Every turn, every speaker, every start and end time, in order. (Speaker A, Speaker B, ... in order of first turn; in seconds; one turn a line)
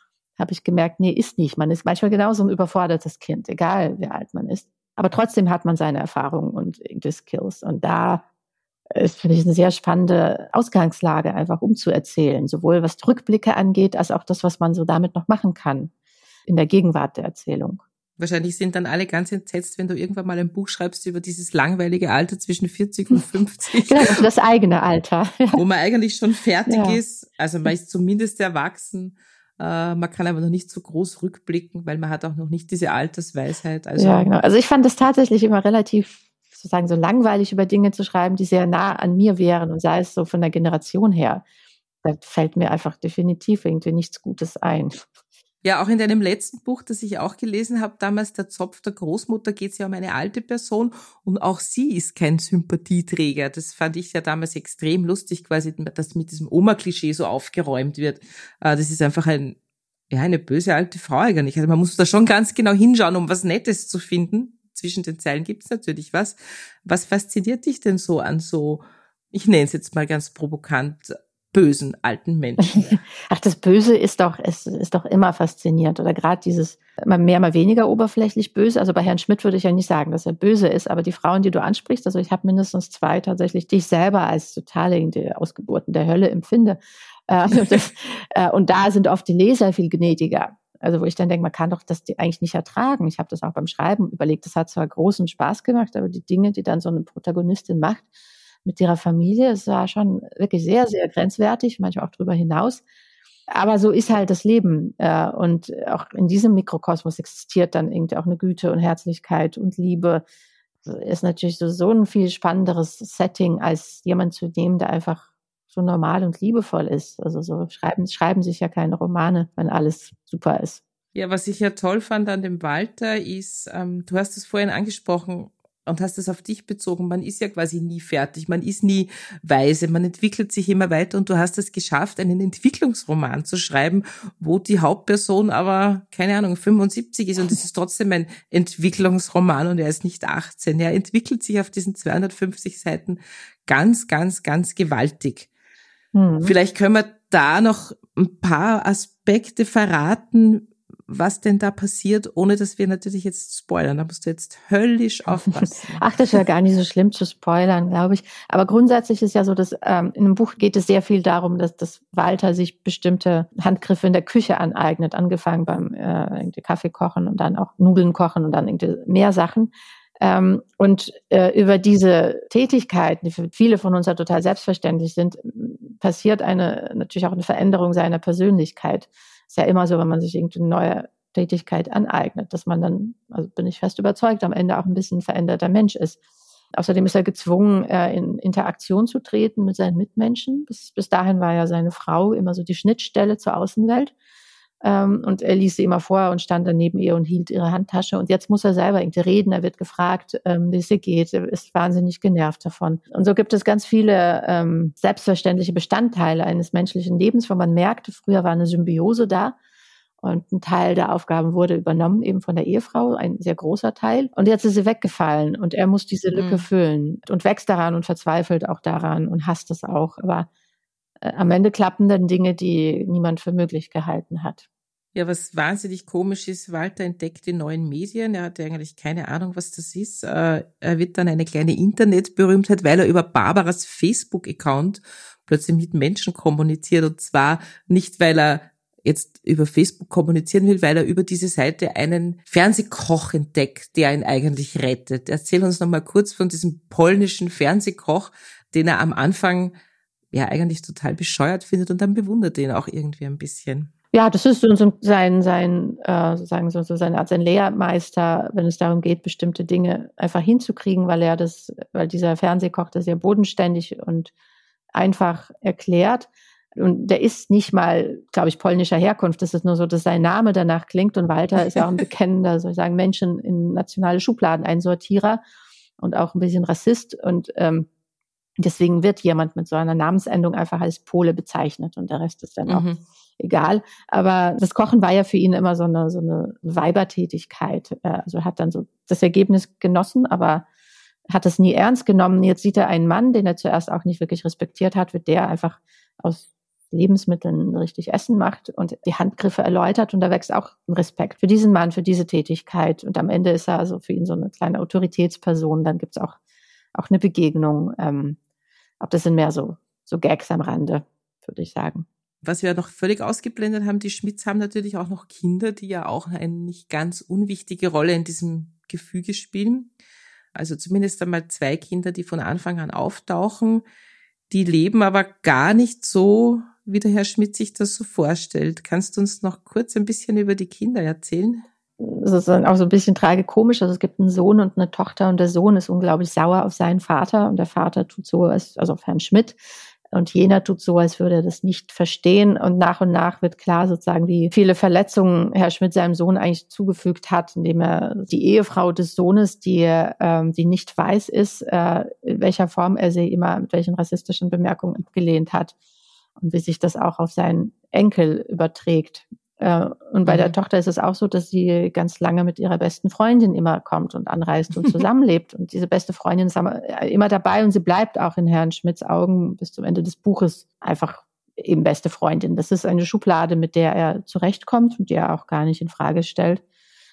Speaker A: 0.4-8.2
Speaker A: 8.9-15.9
Speaker A: 16.5-17.8
Speaker B: 18.2-24.2
Speaker A: 23.9-25.6
Speaker B: 25.5-34.4
Speaker A: 26.7-27.0
Speaker A: 34.0-41.4
Speaker A: 42.0-45.1
Speaker B: 45.6-59.6
Speaker B: 60.1-73.0
Speaker A: 72.7-98.1
Speaker A: 98.7-102.8
Speaker A: 103.5-110.2
Speaker A: 110.8-120.8
Speaker B: 121.1-145.5
Speaker A: 146.1-146.5
Speaker B: 146.4-156.4
Speaker A: 155.3-186.2
Speaker A: 186.7-194.1
Speaker A: 194.8-209.6
Speaker A: 210.2-220.5
Speaker B: 216.3-216.7
Speaker A: 221.2-224.7
Speaker B: 225.2-249.7
Speaker B: 250.3-253.9
Speaker A: 254.1-264.3
Speaker A: 264.9-275.4
Speaker A: 276.0-277.9
Speaker A: 278.6-282.9
Speaker B: 282.7-283.0
Speaker A: 283.4-290.6
Speaker A: 291.3-306.4
Speaker A: 306.9-308.4
Speaker A: 309.0-312.1
Speaker B: 312.4-319.9
Speaker B: 320.5-323.8
Speaker B: 324.5-331.7
Speaker A: 332.0-339.6
Speaker A: 340.1-355.8
Speaker A: 356.4-376.6
Speaker B: 360.3-360.6